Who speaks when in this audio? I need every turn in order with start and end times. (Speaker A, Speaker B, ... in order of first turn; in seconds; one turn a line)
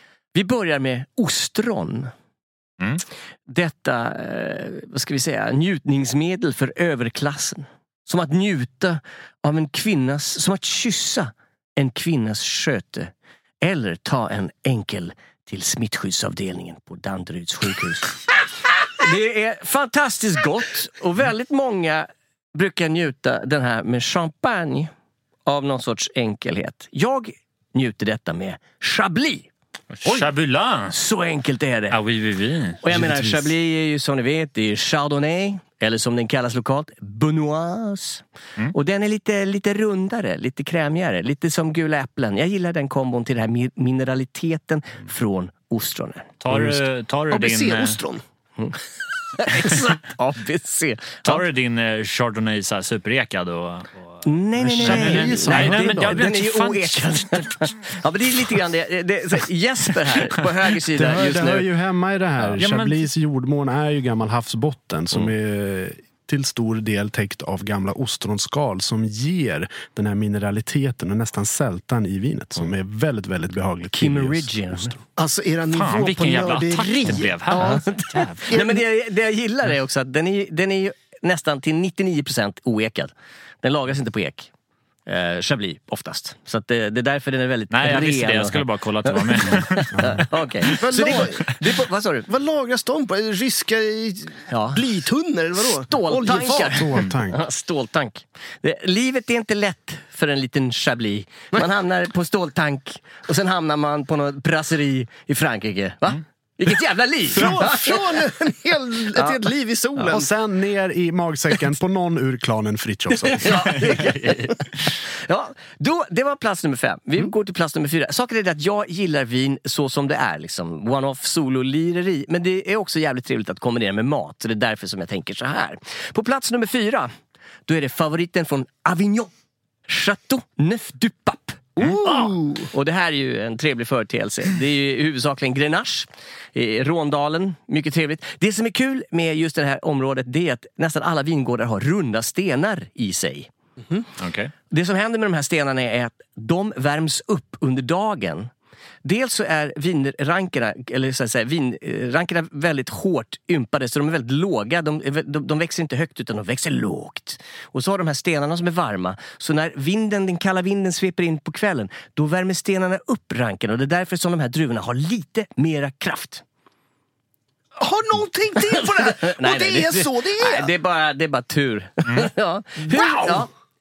Speaker A: 0.3-2.1
Speaker A: 3.5-18.1
Speaker A: 19.0-24.9
Speaker A: 25.4-29.5
Speaker B: 29.9-30.9
Speaker A: 30.9-32.0
Speaker B: 31.9-32.8
Speaker A: 32.8-46.3
Speaker C: 32.9-33.5
Speaker B: 46.4-48.0
Speaker C: 46.5-46.8
Speaker D: 47.3-48.2
Speaker A: 49.3-51.4
Speaker B: 51.2-56.9
Speaker A: 54.2-61.7
Speaker C: 54.6-56.4
Speaker C: 60.9-75.0
Speaker B: 62.4-63.1
Speaker A: 73.9-75.0
Speaker D: 75.2-77.8
Speaker B: 75.7-78.5
Speaker A: 77.5-84.5
Speaker D: 78.5-78.8
Speaker A: 85.1-92.3
Speaker B: 87.7-89.9
Speaker C: 89.9-90.2
Speaker D: 90.7-91.6
Speaker D: 92.3-96.8
Speaker A: 94.5-94.8
Speaker A: 95.9-108.1
Speaker C: 96.6-97.4
Speaker D: 107.3-110.3
Speaker A: 109.1-109.4
Speaker C: 110.1-114.1
Speaker A: 113.2-127.1
Speaker A: 127.7-129.3
Speaker A: 129.9-143.5
Speaker D: 131.8-132.7
Speaker B: 144.2-144.5
Speaker A: 144.7-148.5
Speaker A: 149.0-166.4
Speaker D: 167.8-170.7
Speaker A: 168.7-173.5
Speaker B: 172.1-172.3
Speaker D: 172.8-173.5